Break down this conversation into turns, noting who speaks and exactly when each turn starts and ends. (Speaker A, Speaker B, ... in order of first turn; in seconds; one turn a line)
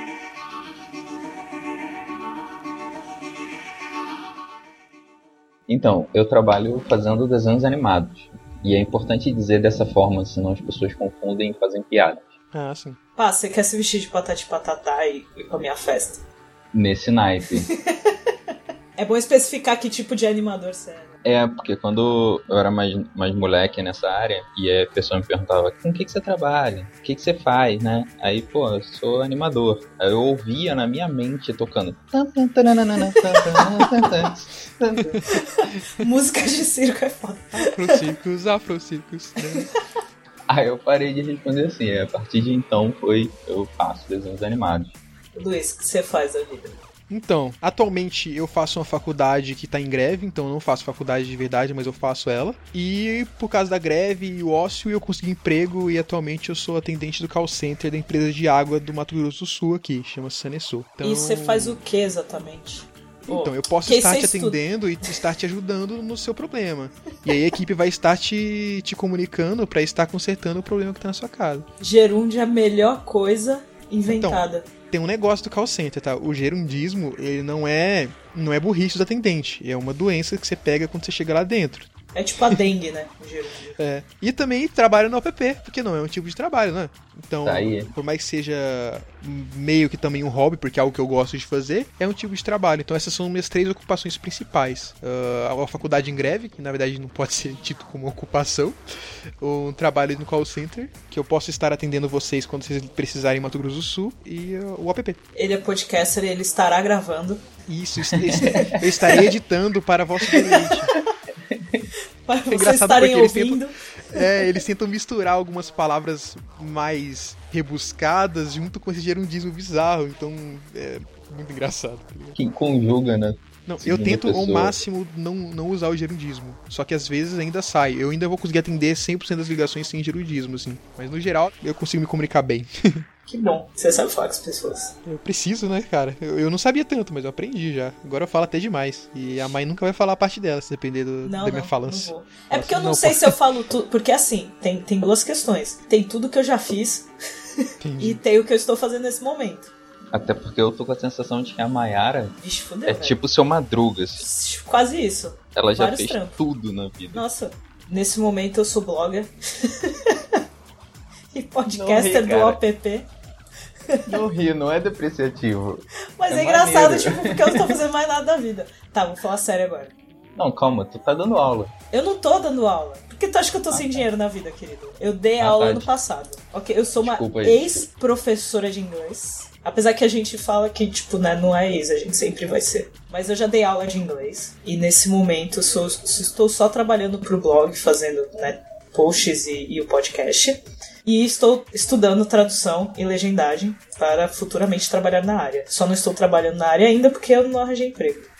Speaker A: 5.7-12.4
Speaker B: 12.5-13.0
Speaker C: 13.2-16.2
Speaker A: 16.7-17.7
Speaker C: 17.7-18.3
Speaker C: 19.0-21.1
Speaker A: 21.2-35.2
Speaker C: 35.3-38.0
Speaker B: 37.5-39.7
Speaker A: 40.5-45.0
Speaker C: 45.3-46.7
Speaker B: 47.1-61.8
Speaker C: 61.0-64.6
Speaker B: 63.3-71.7
Speaker C: 71.8-74.7
Speaker B: 74.1-81.9
Speaker C: 82.1-83.8
Speaker B: 83.8-98.8
Speaker A: 87.4-87.9
Speaker B: 99.4-105.2
Speaker C: 105.3-107.4
Speaker B: 107.7-110.9
Speaker A: 108.3-108.6
Speaker C: 108.4-108.8
Speaker C: 110.3-111.0
Speaker A: 111.5-111.9
Speaker C: 112.3-114.5
Speaker B: 112.5-122.4
Speaker A: 122.3-124.8
Speaker B: 123.7-133.0
Speaker C: 133.3-134.9
Speaker B: 135.0-143.4
Speaker C: 141.2-147.1
Speaker C: 147.6-149.7
Speaker B: 147.8-148.2
Speaker A: 150.1-154.2
Speaker C: 152.4-153.2
Speaker C: 154.2-156.3
Speaker A: 155.5-157.2
Speaker C: 157.1-160.4
Speaker C: 161.3-163.1
Speaker A: 161.7-162.6
Speaker A: 164.1-167.7
Speaker C: 166.2-169.9
Speaker A: 170.3-171.7
Speaker C: 171.9-198.3
Speaker A: 173.7-174.0
Speaker A: 175.4-175.9
Speaker A: 177.0-177.8